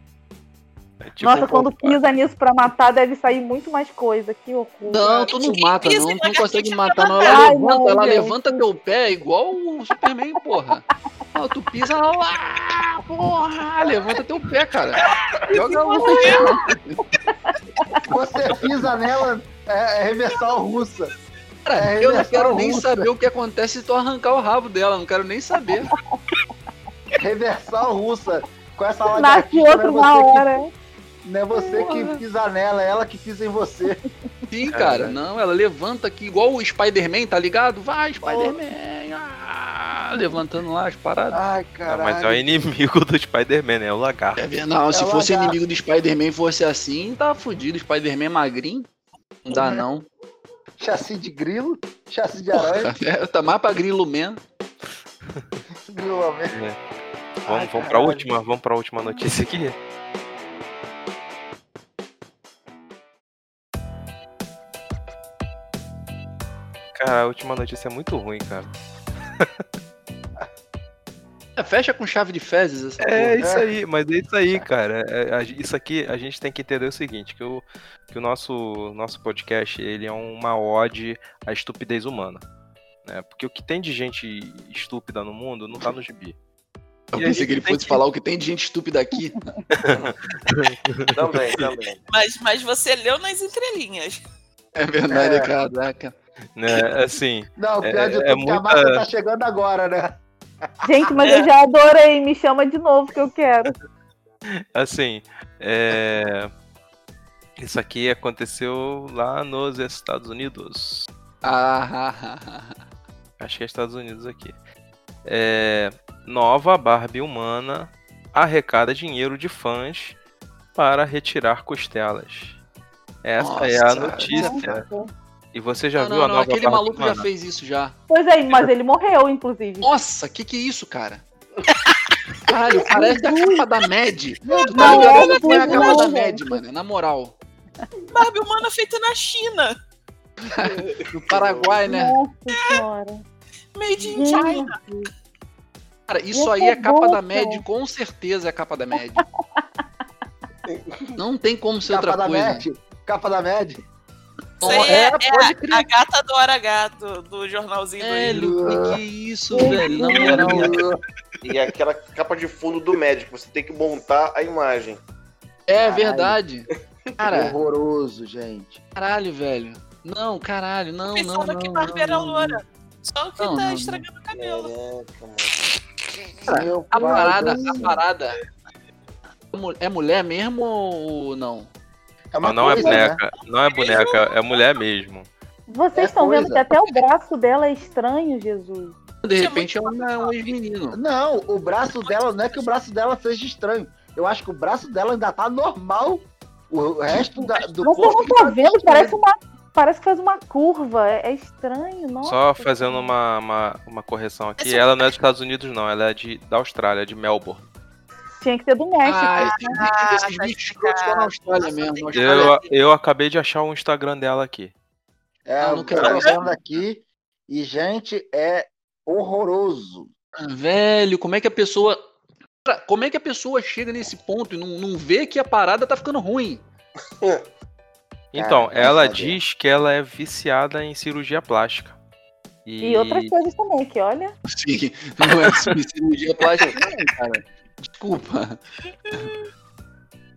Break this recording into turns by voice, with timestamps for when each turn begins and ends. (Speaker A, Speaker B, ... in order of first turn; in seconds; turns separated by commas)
Speaker A: 1.0-2.0, Speaker B: 1.2-5.3, Speaker C: 4.9-17.0, Speaker D: 5.1-7.5, Speaker B: 7.2-8.6, Speaker D: 15.0-16.7, Speaker B: 15.8-16.5, Speaker E: 18.1-21.1, Speaker C: 21.6-25.9, Speaker E: 21.8-23.1, Speaker E: 27.2-30.5, Speaker B: 29.1-30.7, Speaker E: 31.2-34.0, Speaker C: 31.7-32.2, Speaker C: 34.5-41.4, Speaker A: 34.7-35.1, Speaker E: 38.2-38.6, Speaker E: 41.3-42.4, Speaker A: 41.9-44.4, Speaker C: 44.4-48.9, Speaker E: 44.9-45.6, Speaker C: 49.4-50.1, Speaker E: 49.5-49.8, Speaker E: 50.8-52.9, Speaker C: 52.5-54.4, Speaker E: 55.9-56.6, Speaker A: 56.5-56.8, Speaker E: 57.4-58.3, Speaker A: 57.5-59.8, Speaker A: 66.9-68.7, Speaker C: 71.6-73.5, Speaker A: 73.0-82.4, Speaker E: 73.4-73.7, Speaker A: 83.0-86.3, Speaker C: 87.1-89.4, Speaker A: 87.2-88.0, Speaker A: 89.7-91.1, Speaker F: 91.1-92.0, Speaker D: 92.1-94.2, Speaker C: 94.7-96.1, Speaker E: 95.1-95.5, Speaker A: 96.5-99.0, Speaker E: 97.6-100.2, Speaker B: 100.8-103.7, Speaker D: 101.2-101.5, Speaker A: 104.7-106.5, Speaker A: 107.6-111.1, Speaker C: 111.4-112.8, Speaker A: 113.4-114.5, Speaker A: 115.2-120.2, Speaker A: 120.8-122.6, Speaker A: 123.2-124.8, Speaker C: 123.4-124.7, Speaker B: 124.3-125.1, Speaker A: 125.5-127.3, Speaker C: 126.0-128.0, Speaker B: 128.1-129.9, Speaker C: 129.8-131.2, Speaker C: 132.4-137.3, Speaker B: 132.8-133.6, Speaker E: 134.4-135.7, Speaker D: 134.5-136.1, Speaker B: 134.7-136.6, Speaker D: 138.1-139.7, Speaker C: 140.4-142.2, Speaker F: 140.7-141.8, Speaker B: 141.8-143.2, Speaker D: 142.5-142.8, Speaker D: 143.7-144.8, Speaker E: 144.1-144.6, Speaker B: 144.1-145.1, Speaker C: 146.1-149.2, Speaker B: 146.3-147.6, Speaker B: 149.1-149.6, Speaker F: 150.7-151.1, Speaker C: 151.2-152.6, Speaker E: 151.9-153.8, Speaker C: 154.6-155.9, Speaker D: 154.6-158.5, Speaker C: 158.0-160.8, Speaker E: 158.3-159.0, Speaker B: 159.5-160.5, Speaker E: 159.6-161.0, Speaker F: 160.1-160.8, Speaker F: 161.4-165.0, Speaker C: 165.7-167.5, Speaker E: 165.8-166.4, Speaker E: 167.3-168.8, Speaker C: 168.9-172.6, Speaker D: 171.1-174.7, Speaker C: 173.4-174.1, Speaker F: 174.3-175.6, Speaker E: 176.5-178.0, Speaker C: 176.5-178.4, Speaker B: 177.0-177.6, Speaker C: 179.5-181.7, Speaker E: 182.3-183.2, Speaker A: 182.4-185.3, Speaker D: 183.4-184.7, Speaker B: 185.7-188.9, Speaker E: 185.9-186.7, Speaker C: 189.2-191.0, Speaker D: 189.3-190.6, Speaker E: 190.9-199.2, Speaker D: 191.9-192.6, Speaker B: 197.8-203.1, Speaker A: 202.2-207.6, Speaker D: 204.6-205.0, Speaker B: 208.4-209.8, Speaker C: 209.0-212.5, Speaker D: 209.5-212.7, Speaker A: 212.1-214.7, Speaker E: 215.5-220.1, Speaker C: 215.6-216.3, Speaker C: 220.4-222.1, Speaker C: 222.7-226.6, Speaker A: 228.3-231.9, Speaker E: 228.3-229.4, Speaker A: 232.6-233.3, Speaker B: 232.8-234.3, Speaker C: 234.5-238.6